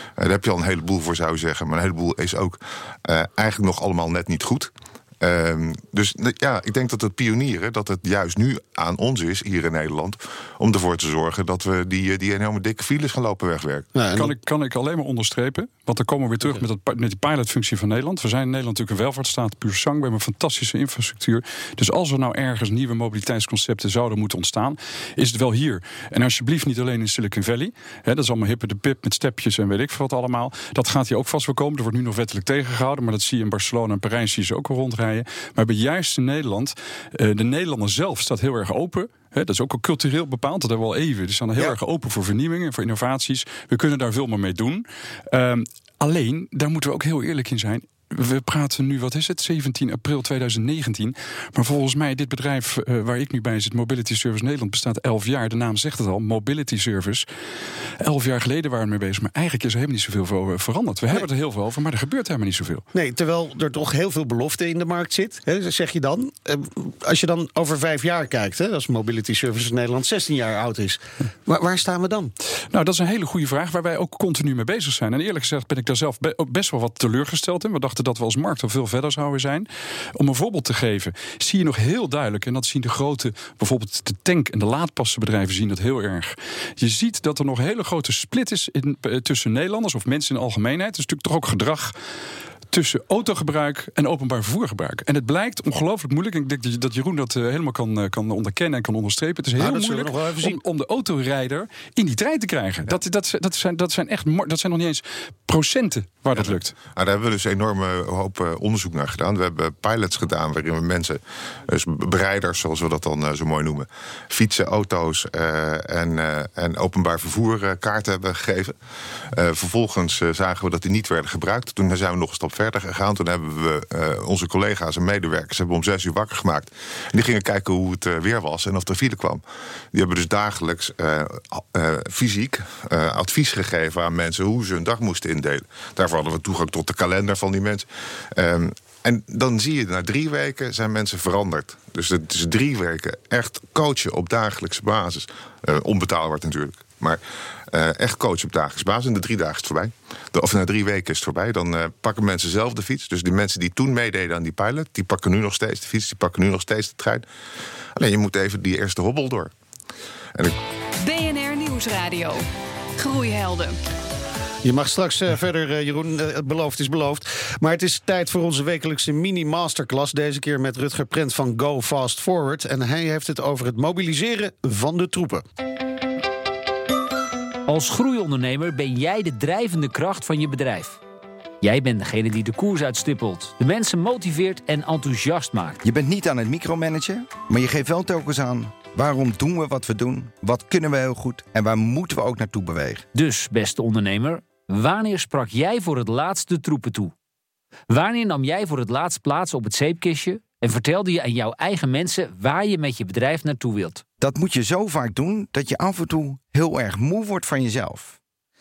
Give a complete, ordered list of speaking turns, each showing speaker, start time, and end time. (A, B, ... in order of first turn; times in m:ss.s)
0:00.2-0:13.9 A
0:13.9-0:14.3 B
0:14.1-0:57.2 C
0:58.0-1:02.8 C
1:02.9-1:12.3 B
1:12.7-1:31.9 C
1:32.7-1:46.7 C
1:39.6-1:40.6 B
1:46.4-1:58.7 A
1:59.3-2:37.2 A
2:38.0-2:39.5 A
2:41.0-2:42.4 D
2:43.0-2:43.8 D
2:44.6-2:55.4 B
2:57.6-3:01.0 E
3:01.6-3:05.8 E
3:05.8-3:13.0 F
3:13.1-3:17.1 E
3:17.9-3:24.0 E
3:24.2-3:28.2 F